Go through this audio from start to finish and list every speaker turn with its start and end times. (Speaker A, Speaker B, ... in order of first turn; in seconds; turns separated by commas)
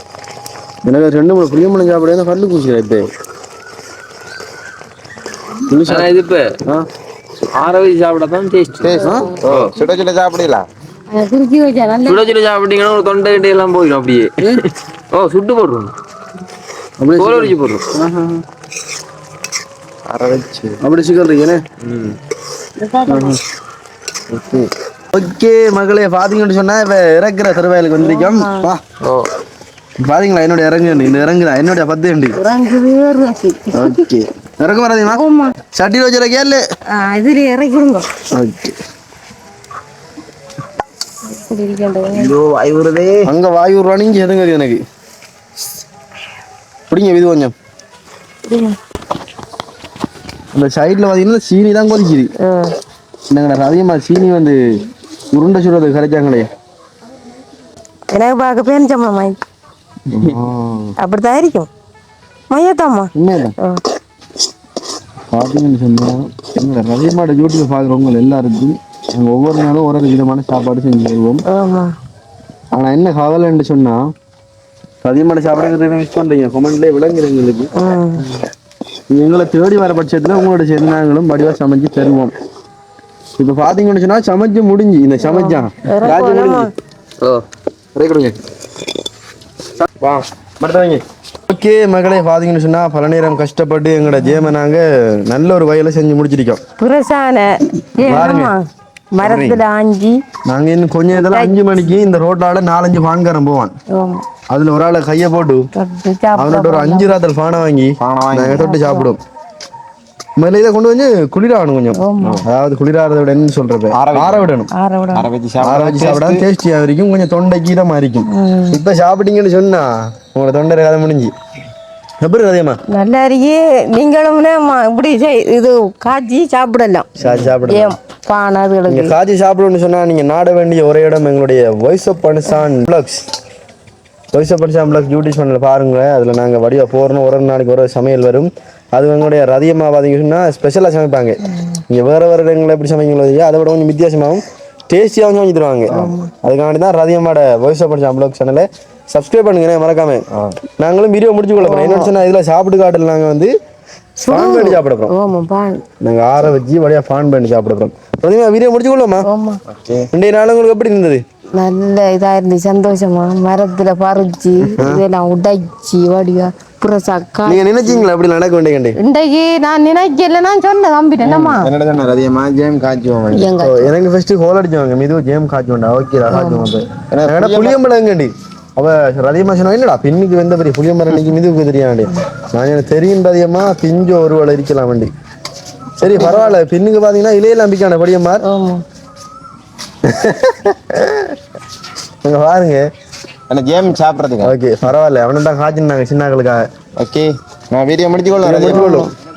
Speaker A: 0.8-3.1, Speaker A: 5.7-6.1, Speaker B: 5.8-6.6, Speaker B: 7.5-9.7, Speaker C: 8.8-10.7, Speaker A: 9.0-9.3, Speaker D: 9.0-9.3, Speaker D: 11.1-12.3, Speaker B: 12.1-14.4, Speaker B: 15.1-15.9, Speaker A: 17.0-17.5, Speaker B: 17.1-18.4, Speaker C: 20.1-20.8, Speaker A: 20.8-21.6, Speaker D: 22.8-23.4, Speaker A: 23.1-23.4, Speaker C: 24.3-24.7, Speaker A: 25.1-28.8, Speaker D: 28.0-28.7, Speaker A: 30.0-32.4, Speaker D: 32.3-34.0, Speaker A: 33.7-36.6, Speaker D: 35.0-35.5, Speaker D: 36.9-38.1, Speaker A: 38.3-38.8, Speaker D: 41.3-42.4, Speaker C: 42.1-43.3, Speaker A: 43.2-44.8, Speaker A: 46.9-47.5, Speaker D: 48.5-48.8, Speaker A: 50.5-52.3, Speaker D: 52.4-52.8, Speaker A: 53.3-54.6, Speaker A: 55.3-56.5, Speaker D: 58.1-59.4, Speaker A: 60.1-60.9, Speaker D: 61.0-61.7, Speaker D: 62.5-63.8, Speaker A: 63.1-63.5, Speaker A: 65.3-71.4, Speaker D: 71.5-71.9, Speaker A: 72.7-74.1, Speaker A: 75.0-77.7, Speaker D: 77.7-78.2, Speaker A: 79.1-82.3, Speaker A: 83.4-86.7, Speaker D: 85.2-86.7, Speaker A: 87.9-88.3, Speaker A: 89.8-96.6, Speaker D: 96.8-100.2, Speaker A: 98.0-98.5, Speaker A: 99.2-99.6, Speaker A: 100.5-103.7, Speaker D: 101.1-101.6, Speaker D: 103.9-104.2, Speaker A: 104.5-105.7, Speaker D: 105.7-107.1, Speaker A: 106.3-109.2, Speaker C: 108.0-108.6, Speaker D: 108.5-109.1, Speaker A: 110.4-114.7, Speaker D: 111.9-112.4, Speaker C: 113.9-114.5, Speaker D: 114.7-115.3, Speaker C: 115.1-116.4, Speaker A: 115.6-121.3, Speaker D: 118.3-118.8, Speaker A: 122.2-122.8, Speaker D: 122.9-127.1, Speaker A: 127.2-128.0, Speaker D: 127.6-129.1, Speaker A: 128.9-133.2, Speaker A: 134.3-150.2, Speaker D: 141.5-141.8, Speaker D: 145.9-146.3, Speaker A: 150.8-153.5, Speaker D: 151.6-152.1, Speaker D: 154.2-155.8, Speaker A: 154.3-155.1, Speaker A: 156.0-159.3, Speaker D: 159.2-159.6, Speaker C: 159.7-160.1, Speaker A: 160.1-161.2, Speaker D: 161.6-168.0, Speaker A: 164.8-165.0, Speaker A: 167.4-169.0, Speaker D: 168.9-171.7, Speaker C: 171.2-173.5, Speaker D: 173.3-173.9, Speaker A: 173.6-185.1, Speaker D: 176.3-176.8, Speaker C: 177.1-177.8, Speaker A: 186.0-188.4, Speaker D: 188.4-188.8, Speaker C: 190.0-191.1, Speaker A: 192.2-192.9, Speaker C: 193.5-194.5, Speaker A: 194.4-196.7, Speaker C: 197.0-198.9, Speaker A: 198.4-199.1, Speaker D: 198.7-199.1